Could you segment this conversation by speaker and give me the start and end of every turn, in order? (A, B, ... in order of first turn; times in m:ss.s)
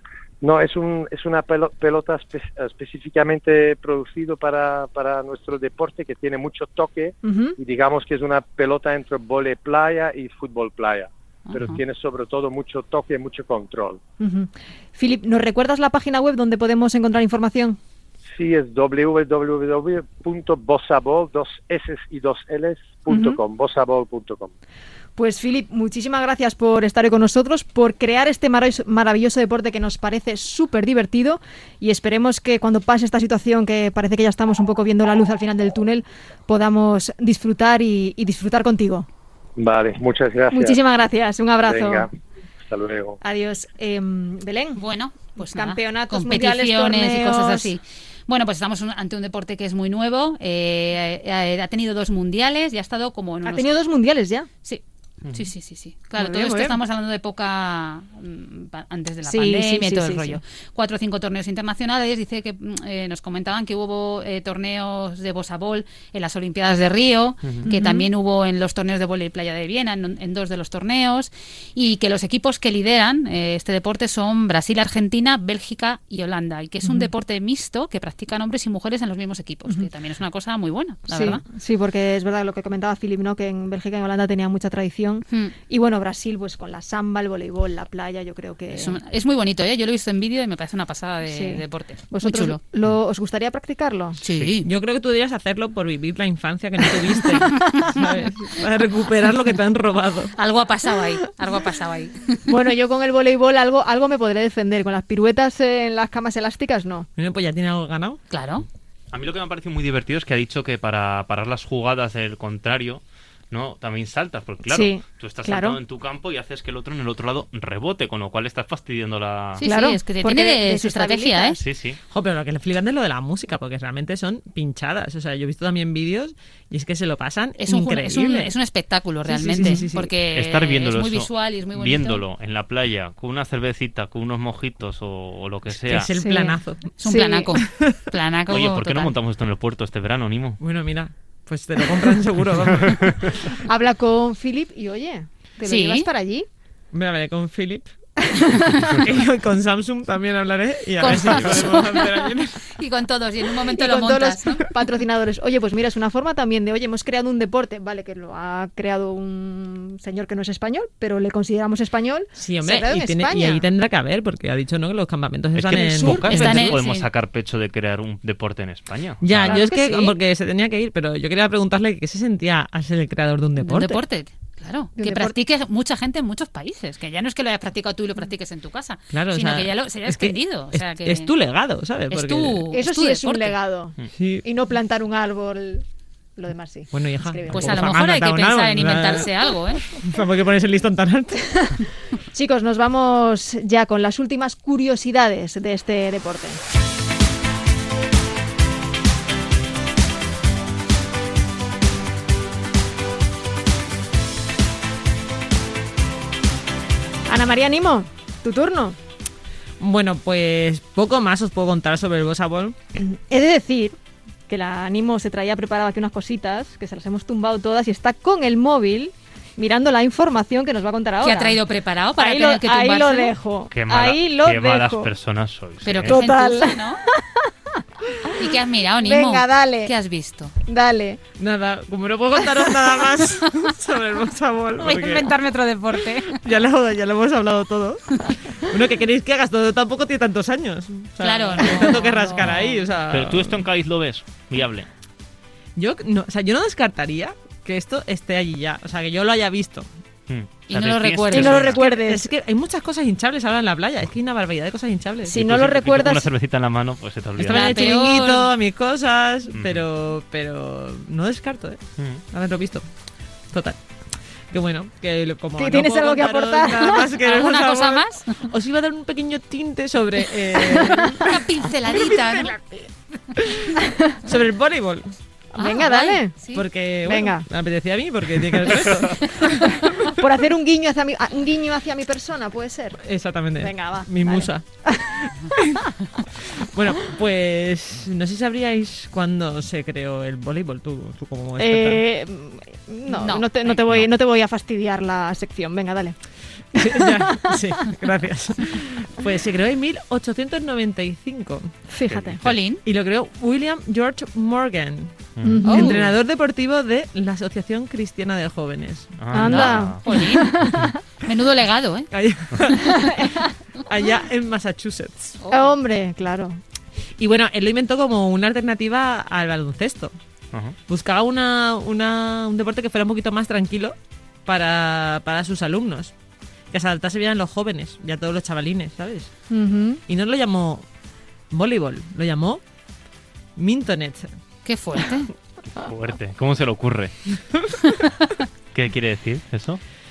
0:00.4-0:14.0 A
0:07.2-0:07.6 B
0:11.5-0:11.8 C
0:14.2-0:17.8 B
0:18.3-0:24.5 A
0:23.1-0:23.4 B
0:25.2-0:39.1 B
0:39.6-0:40.8 A
0:40.5-0:42.1 B
0:41.6-0:42.1 A
0:42.7-0:43.2 A
0:43.2-0:44.8 B
0:44.8-0:53.7 C
0:45.4-0:47.8 B
0:53.4-0:54.5 B
0:54.6-1:21.4 C
0:56.2-0:56.8 B
0:59.2-1:00.4 B
1:07.6-1:08.1 B
1:16.8-1:17.1 B
1:21.1-1:29.0 B
1:25.3-1:25.5 C
1:28.7-1:32.6 C
1:31.3-1:34.2 B
1:34.2-1:34.7 C
1:34.6-1:40.3 D
1:37.3-1:37.8 B
1:40.4-1:42.5 C
1:42.5-1:47.1 B
1:47.2-1:48.2 D
1:48.3-1:48.6 C
1:49.1-1:59.6 E
1:54.7-1:55.8 B
1:59.6-2:01.6 B
1:59.6-2:01.6 C
2:01.6-2:02.0 E
2:02.1-2:08.5 D
2:07.6-2:12.2 C
2:09.3-2:09.9 B
2:09.6-2:10.1 D
2:10.3-2:16.1 E
2:15.8-2:17.0 D
2:16.2-2:17.6 B
2:17.0-2:19.1 C
2:17.6-2:18.0 D
2:18.5-2:20.6 E
2:20.6-2:23.4 D
2:22.8-2:23.3 E
2:23.6-2:26.5 B
2:25.6-2:26.1 C
2:26.9-2:32.8 D
2:28.3-2:28.9 B
2:31.0-2:32.1 C
2:32.7-2:34.7 C
2:33.7-2:43.7 B
2:42.4-2:46.8 D
2:45.5-2:49.6 E
2:45.8-2:46.6 B
2:46.1-2:47.1 C
2:49.2-2:54.0 D
2:49.4-2:50.2 B
2:53.6-3:01.3 C
2:55.0-2:55.4 B
2:59.1-3:02.7 D
3:02.1-3:03.6 C
3:02.7-3:05.8 B
3:04.1-3:04.4 D
3:06.4-3:08.0 B
3:06.9-3:11.7 D
3:07.5-3:09.9 C
3:11.5-3:16.6 B
3:27.3-3:29.0 B
3:29.8-3:32.8 D
3:33.0-3:34.0 B
3:34.5-3:41.6 B
3:41.2-3:43.3 C
3:42.2-3:45.1 B
3:43.7-3:46.2 E
3:45.8-3:47.0 C
3:46.1-3:49.9 B
3:48.4-3:50.6 C
3:50.6-3:51.2 B
3:51.4-3:55.3 D
3:52.6-3:52.9 B
3:54.8-3:56.4 C
3:56.3-4:03.6 D
4:01.2-4:02.9 C
4:03.1-4:04.9 E
4:05.8-4:09.9 D
4:10.3-4:11.8 E
4:10.7-4:11.9 C
4:11.3-4:12.3 B
4:11.8-4:15.3 D
4:15.2-4:16.3 B
4:15.3-4:17.6 E
4:17.4-4:22.9 D
4:17.5-4:18.5 C
4:17.6-4:18.0 B
4:19.5-4:19.8 E
4:22.0-4:22.2 E
4:23.5-4:23.8 D
4:24.5-4:31.3 D
4:25.6-4:27.1 B
4:27.2-4:28.5 C
4:30.7-4:31.3 B
4:31.2-4:32.6 C
4:32.0-4:32.5 D
4:33.4-4:33.7 D
4:33.8-4:34.2 B
4:34.2-4:35.2 D
4:35.6-4:37.5 B
4:35.6-4:36.7 C
4:36.5-4:40.1 D
4:39.5-4:40.1 C
4:40.1-4:45.3 B
4:43.0-4:45.9 D
4:46.6-4:52.0 D
4:51.6-4:56.2 B
4:53.1-4:53.8 C
4:56.7-5:01.8 D
4:56.8-4:57.9 B
5:01.9-5:02.4 B
5:02.1-5:02.6 E
5:02.4-5:02.8 C
5:02.8-5:09.3 D
5:05.4-5:05.7 E
5:05.4-5:06.1 B
5:05.7-5:06.1 C
5:09.2-5:10.0 E
5:09.3-5:11.0 B
5:09.4-5:10.7 C
5:10.6-5:10.9 E
5:11.2-5:12.1 C
5:12.1-5:13.2 D
5:12.7-5:13.2 C
5:12.8-5:13.5 B
5:13.9-5:15.4 D
5:15.4-5:15.7 C
5:15.5-5:16.6 B
5:17.2-5:20.2 D
5:20.9-5:24.0 D
5:24.5-5:26.1 D
5:26.7-5:29.3 D
5:29.5-5:30.0 B
5:30.1-5:30.8 D
5:31.5-5:32.6 D
5:33.6-5:34.3 D
5:34.6-5:35.3 C
5:35.7-5:37.3 E
5:38.7-5:39.8 E